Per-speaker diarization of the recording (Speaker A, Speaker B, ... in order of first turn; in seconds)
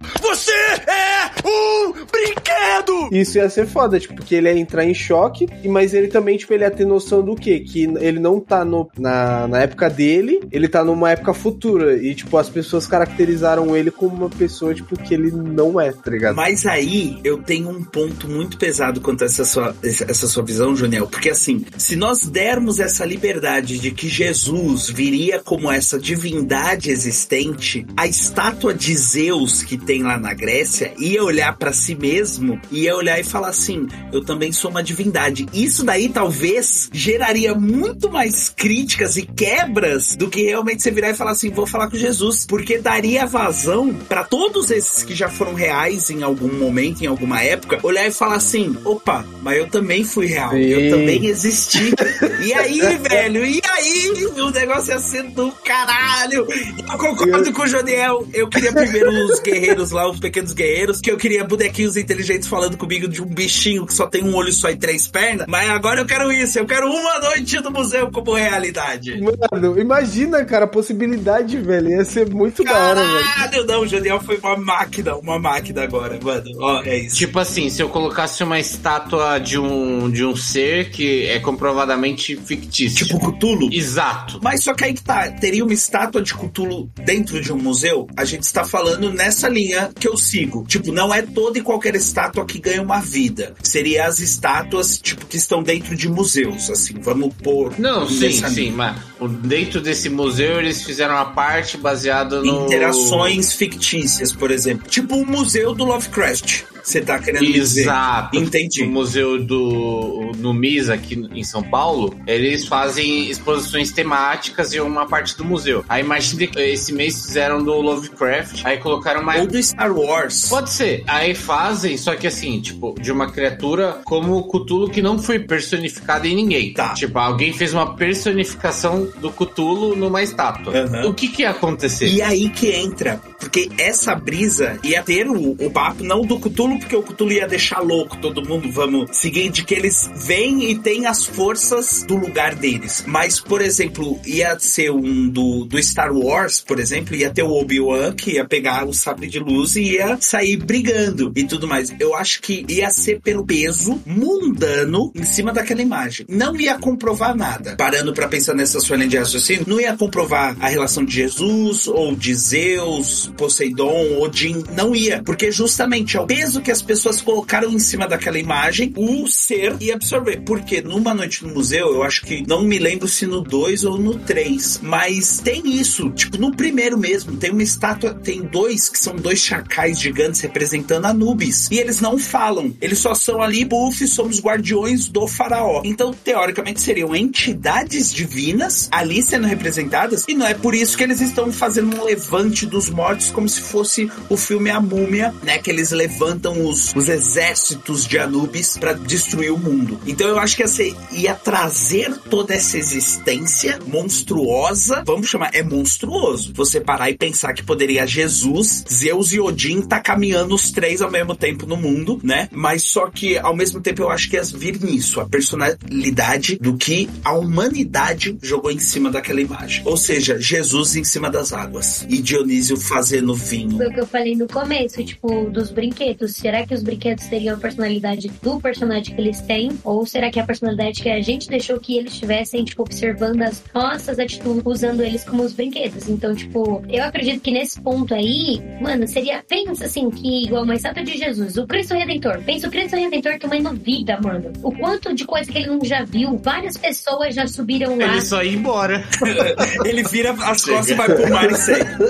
Speaker A: 0.2-3.1
Speaker B: 3.1-16.4, 50.5-51.3, 57.2-57.5, 58.8-59.1, 69.1-73.3
Speaker C: 16.3-69.2, 72.6-77.3, 82.9-83.8, 84.4-98.7, 102.4-108.9, 119.3-120.6, 126.7-127.0, 130.7-131.1, 132.0-223.9, 249.2-251.9
Speaker D: 77.1-83.2, 83.7-84.4, 97.8-103.4, 107.4-119.5, 120.5-132.2, 248.0-249.8, 250.6-251.5
Speaker E: 223.8-248.3